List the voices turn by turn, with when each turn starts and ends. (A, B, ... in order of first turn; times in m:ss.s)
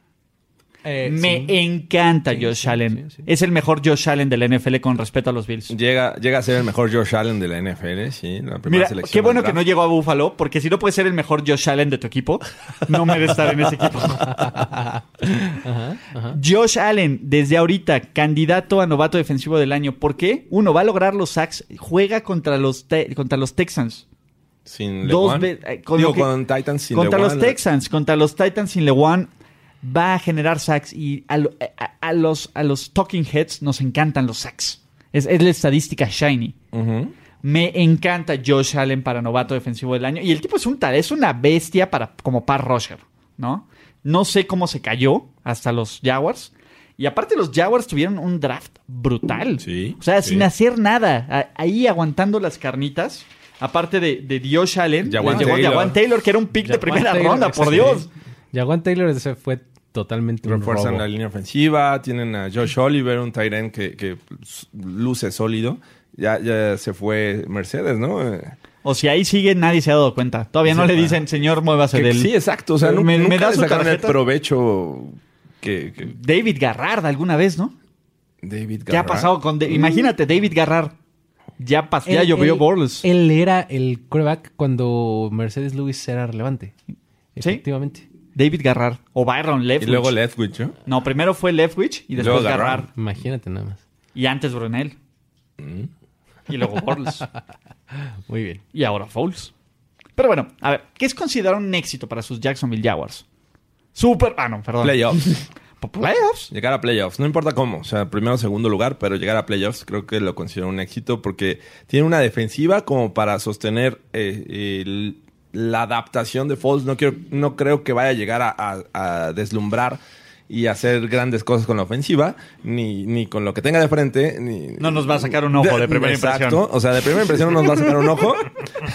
0:00.8-0:01.6 A
0:01.0-0:05.7 B
0:02.3-0:03.2 A
0:05.7-0:09.6 C
0:08.7-0:14.7 B
0:14.3-0:16.4 A
0:16.3-0:24.0 B
0:24.7-0:27.6 C
0:25.0-0:26.3 B
0:26.9-0:29.3 B
0:29.8-0:36.6 B
0:36.7-0:37.1 C
0:37.4-0:58.1 B
0:49.6-0:50.5 C
0:55.0-0:56.0 C
0:55.2-0:56.0 A
0:56.6-1:01.0 A
1:00.4-1:08.6 C
1:08.8-1:12.3 B
1:10.7-1:11.2 C
1:11.9-1:16.1 C
1:12.8-1:14.2 B
1:16.1-1:17.8 B
1:18.4-1:19.4 C
1:18.9-1:21.0 B
1:21.6-1:23.1 B
1:22.1-1:26.8 A
1:27.4-1:28.1 A
1:28.4-1:30.1 B
1:29.8-1:30.8 C
1:30.9-1:32.9 B
1:32.2-1:32.9 C
1:32.2-1:33.8 A
1:34.2-1:35.0 B
1:35.6-1:35.9 C
1:36.5-1:37.2 B
1:37.9-1:38.6 A
1:38.7-1:39.5 B
1:40.2-1:43.2 B
1:44.0-1:46.5 B
1:44.8-1:45.4 C
1:46.5-2:08.6 C
2:04.8-2:06.6 B